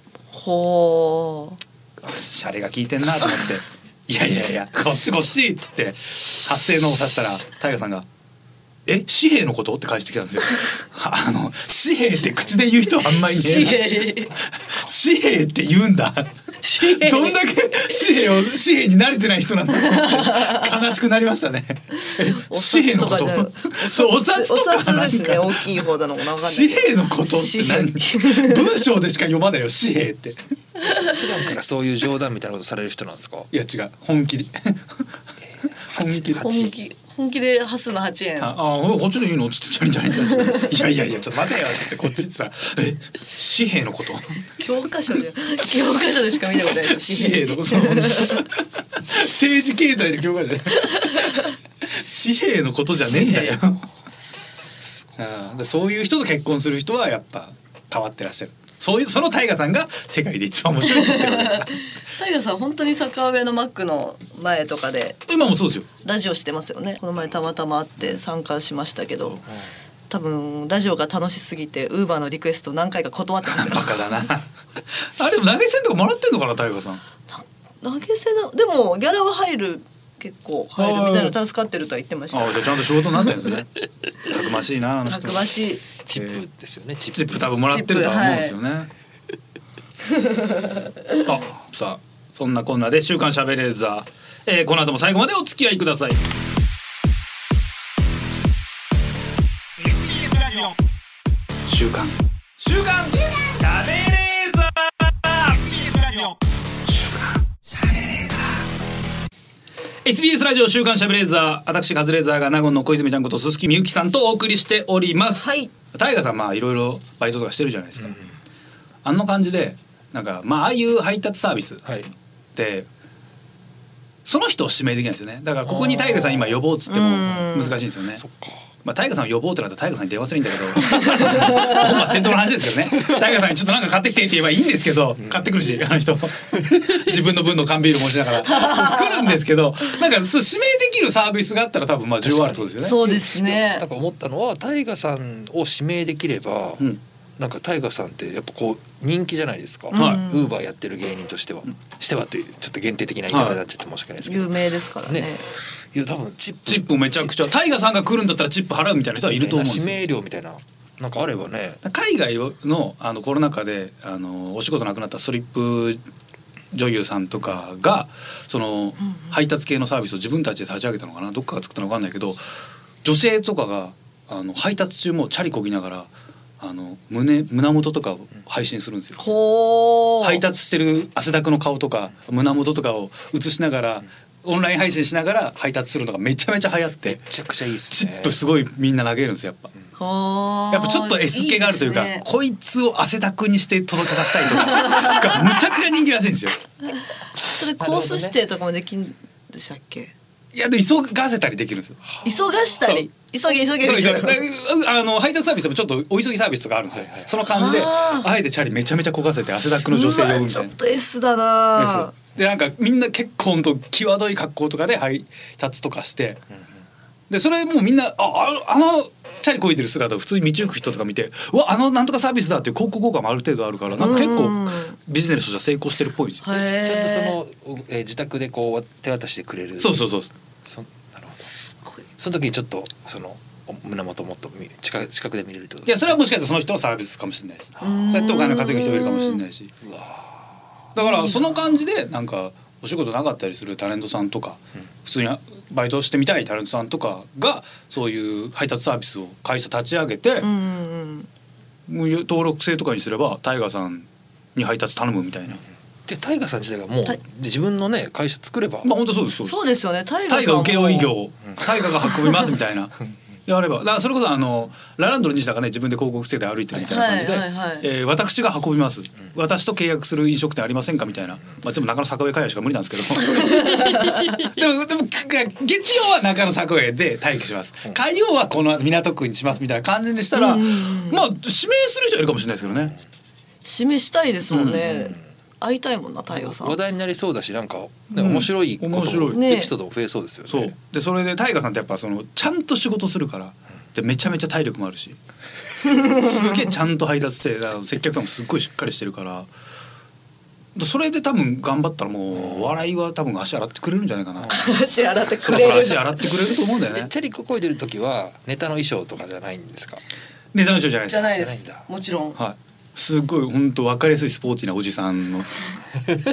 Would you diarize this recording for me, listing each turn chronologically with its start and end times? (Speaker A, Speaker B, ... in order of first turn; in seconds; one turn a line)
Speaker A: 0.3-1.6
Speaker B: 2.0-8.1
Speaker B: 8.9-30.4
Speaker A: 13.0-14.4
Speaker A: 16.6-17.4
Speaker A: 19.9-20.7
Speaker A: 22.0-28.6
Speaker A: 30.9-31.2
Speaker C: 31.0-33.5
Speaker B: 33.5-34.8
Speaker B: 35.9-36.7
Speaker C: 36.0-36.5
Speaker A: 36.4-38.5
Speaker B: 38.4-44.4
Speaker A: 40.4-40.6
Speaker A: 44.6-48.5
Speaker B: 46.8-53.9
Speaker A: 50.8-51.5
Speaker A: 53.0-53.5
Speaker B: 55.1-61.8
Speaker A: 60.9-65.2
Speaker B: 65.3-65.9
Speaker A: 66.0-69.4
Speaker A: 70.1-74.0
Speaker B: 73.5-74.5
Speaker B: 75.0-77.0
Speaker A: 77.3-82.8
Speaker B: 80.8-81.3
Speaker B: 82.3-85.5
Speaker A: 85.1-85.9
Speaker C: 86.1-87.5
Speaker B: 86.1-86.4
Speaker B: 87.1-88.9
Speaker A: 87.7-88.5
Speaker A: 90.2-90.7
Speaker B: 91.2-96.2
Speaker B: 100.2-100.7
Speaker B: 101.7-106.3
Speaker B: 107.7-108.6
Speaker B: 110.0-118.2
Speaker A: 115.4-115.7
Speaker B: 119.0-121.8
Speaker B: 122.6-122.9
Speaker B: 124.2-128.2
Speaker C: 125.7-126.6
Speaker A: 126.9-127.8
Speaker C: 128.2-128.7
Speaker B: 128.8-143.0
Speaker A: 130.9-131.8
Speaker A: 138.5-139.1
Speaker C: 142.2-146.9
Speaker A: 142.8-143.8
Speaker C: 147.4-155.3
Speaker A: 149.9-150.5
Speaker B: 149.9-150.2
Speaker B: 153.3-153.6
Speaker A: 154.2-155.4
Speaker C: 155.9-157.5
Speaker B: 156.7-160.0
Speaker C: 159.3-161.8
Speaker B: 161.8-166.0
Speaker B: 166.7-172.4
Speaker B: 173.0-179.2
Speaker A: 179.2-180.4
Speaker B: 180.2-187.3
Speaker C: 187.2-188.4
Speaker B: 187.9-189.7
Speaker A: 190.0-192.2
Speaker B: 190.7-196.6
Speaker A: 194.7-195.3
Speaker A: 197.4-200.1
Speaker C: 197.8-198.4
Speaker B: 200.5-202.0
Speaker A: 202.2-204.4
Speaker B: 203.8-210.7
Speaker C: 206.9-207.3
Speaker A: 207.5-208.3
Speaker A: 209.9-212.1
Speaker B: 211.8-216.4
Speaker B: 217.3-226.6
Speaker A: 224.0-225.0
Speaker A: 226.4-227.3
Speaker C: 226.8-230.1
Speaker B: 229.8-230.3
Speaker C: 230.6-231.5
Speaker A: 231.7-232.0
Speaker C: 232.2-236.2
Speaker B: 235.9-239.7
Speaker A: 237.8-239.4
Speaker C: 239.8-240.5
Speaker B: 240.9-250.5
Speaker A: 241.0-241.6
Speaker A: 250.4-251.3
Speaker B: 251.9-255.6
Speaker C: 256.1-258.9
Speaker B: 258.8-259.6
Speaker A: 259.4-261.1
Speaker B: 260.3-282.9
Speaker A: 266.8-267.9
Speaker A: 273.4-274.4
Speaker A: 280.3-281.2
Speaker A: 283.6-286.8
Speaker B: 284.5-284.9
Speaker C: 286.3-290.7
Speaker B: 288.1-289.4
Speaker A: 289.3-289.7
Speaker B: 290.5-295.2
Speaker A: 295.9-296.2
Speaker B: 296.0-299.5
Speaker B: 300.8-304.7
Speaker C: 302.4-302.6
Speaker A: 304.5-306.3
Speaker B: 305.4-307.1
Speaker C: 306.9-310.0
Speaker B: 310.5-311.3
Speaker A: 311.1-312.4
Speaker C: 311.3-311.8
Speaker B: 312.4-315.6